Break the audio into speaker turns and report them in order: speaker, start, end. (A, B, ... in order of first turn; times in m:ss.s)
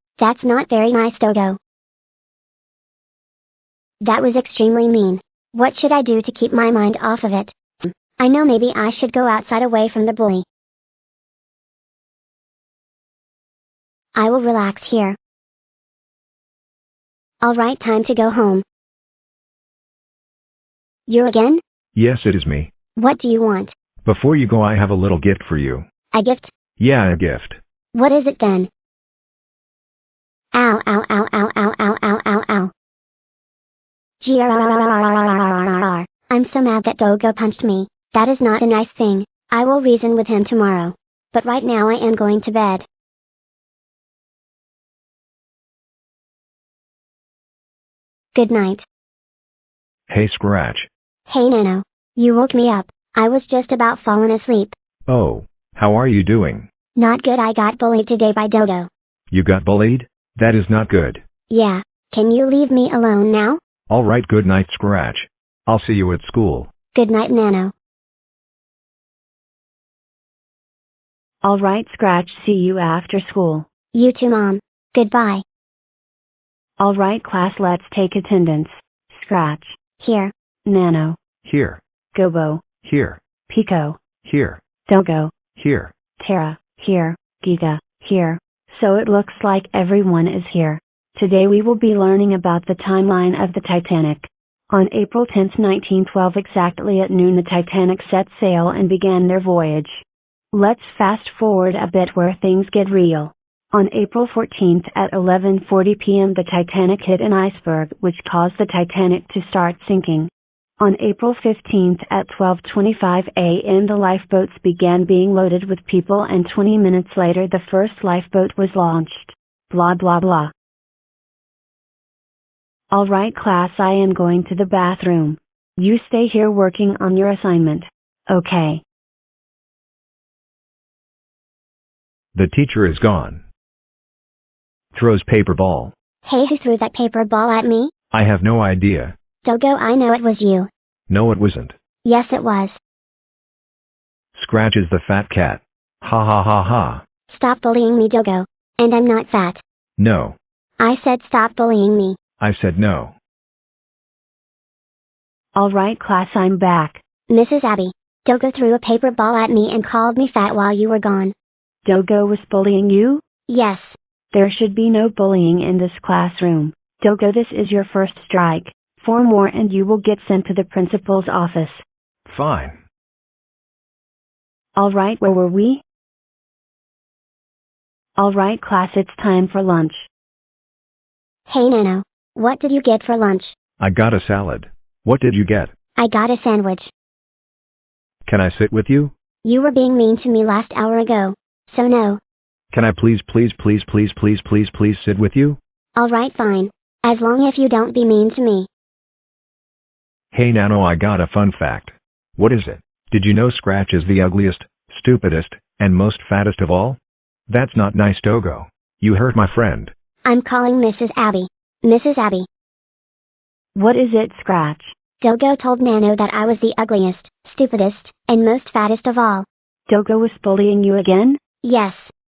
0:00.2-0:01.6 A
0:04.0-0:10.4 A
0:14.1-0:15.2 A
0:17.4-0:18.6 A
0:21.1-0:21.6 A
0:21.9-0:22.7 B
0:23.0-0:23.7 A
0:24.0-0:25.8 B
0:26.1-0:26.5 A
0:26.8-0:27.6 B
0:27.9-0:28.7 A
0:30.5-0:32.7 A
0:34.2-0:42.8 A
0:48.3-0:48.8 A
0:50.1-0:50.9 B
0:51.3-0:54.7 A
0:55.1-0:56.7 B
0:57.0-0:58.9 A
0:59.3-1:01.2 B
1:01.5-1:03.6 A
1:03.9-1:06.7 B
1:06.9-1:07.7 A
1:11.4-1:13.6 C
1:13.9-1:15.4 A
1:16.8-1:19.8 C
1:20.0-1:20.3 A
1:20.6-1:21.2 C
1:21.4-1:21.8 B
1:22.1-1:22.6 C
1:22.8-1:23.2 B
1:23.5-1:24.0 C
1:24.2-1:24.6 B
1:24.9-1:25.3 C
1:25.6-1:25.9 B
1:26.2-2:00.5 C
2:02.9-2:08.8 C
2:12.3-2:13.4 B
2:14.9-2:15.9 B
2:16.2-2:17.9 A
2:18.1-2:19.2 B
2:19.4-2:20.7 A
2:21.1-2:21.8 B
2:22.0-2:22.8 A
2:24.3-2:27.0 B
2:27.3-2:29.6 A
2:30.0-2:30.4 B
2:30.8-2:32.2 A
2:32.4-2:33.2 B
2:35.5-2:37.0 C
2:37.3-2:41.3 A
2:41.8-2:43.2 C
2:43.5-2:44.0 A
2:44.3-2:51.8 C
2:52.3-2:52.8 B
2:54.8-2:55.8 C
2:58.2-3:00.1 C
3:01.5-3:03.5 A
3:03.8-3:05.7 B
3:06.0-3:06.9 A
3:08.2-3:09.1 B
3:09.4-3:12.2 A
3:12.7-3:15.6 B
3:16.0-3:18.7 A
3:20.3-3:29.9 B
3:30.2-3:32.5 A
3:33.7-3:34.9 C
3:35.2-3:39.5 A
3:39.9-3:41.4 C
3:41.6-3:42.1 A